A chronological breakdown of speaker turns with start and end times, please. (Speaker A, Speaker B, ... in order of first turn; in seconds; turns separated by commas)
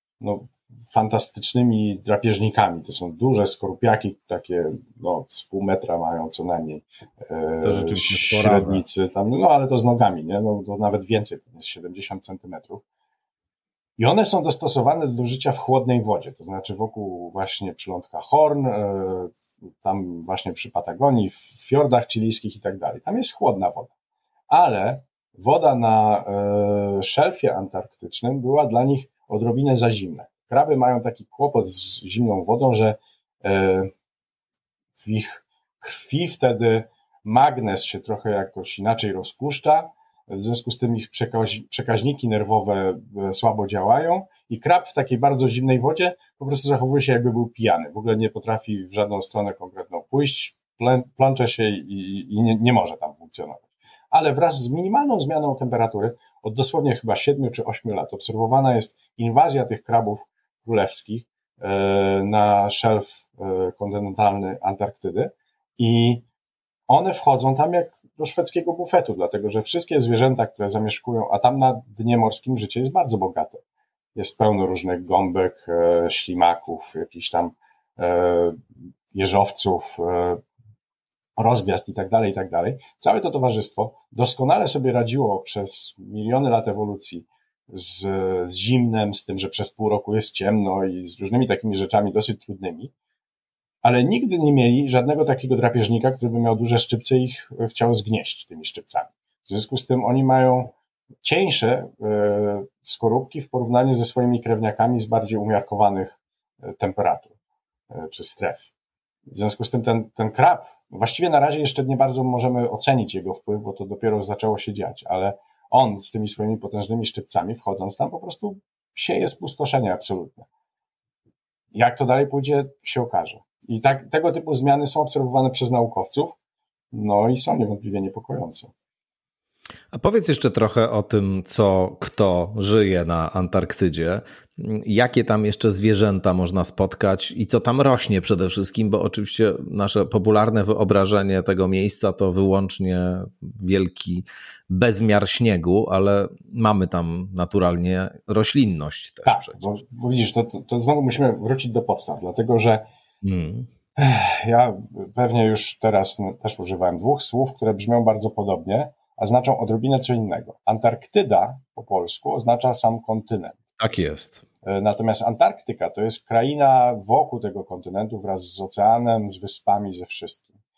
Speaker A: 0.2-12.8, Speaker B: 7.6-8.8, Speaker A: 14.0-23.9, Speaker A: 24.5-33.9, Speaker A: 35.0-66.2, Speaker A: 66.9-73.6, Speaker A: 74.1-78.6, Speaker A: 79.1-80.4, Speaker A: 81.4-92.9, Speaker A: 93.8-107.3, Speaker A: 107.9-108.7, Speaker A: 109.3-120.5, Speaker A: 121.7-126.4, Speaker A: 126.9-128.7, Speaker B: 129.9-149.8, Speaker A: 149.2-152.8, Speaker B: 153.2-153.7, Speaker A: 154.0-163.6, Speaker B: 163.8-164.4, Speaker A: 164.6-170.5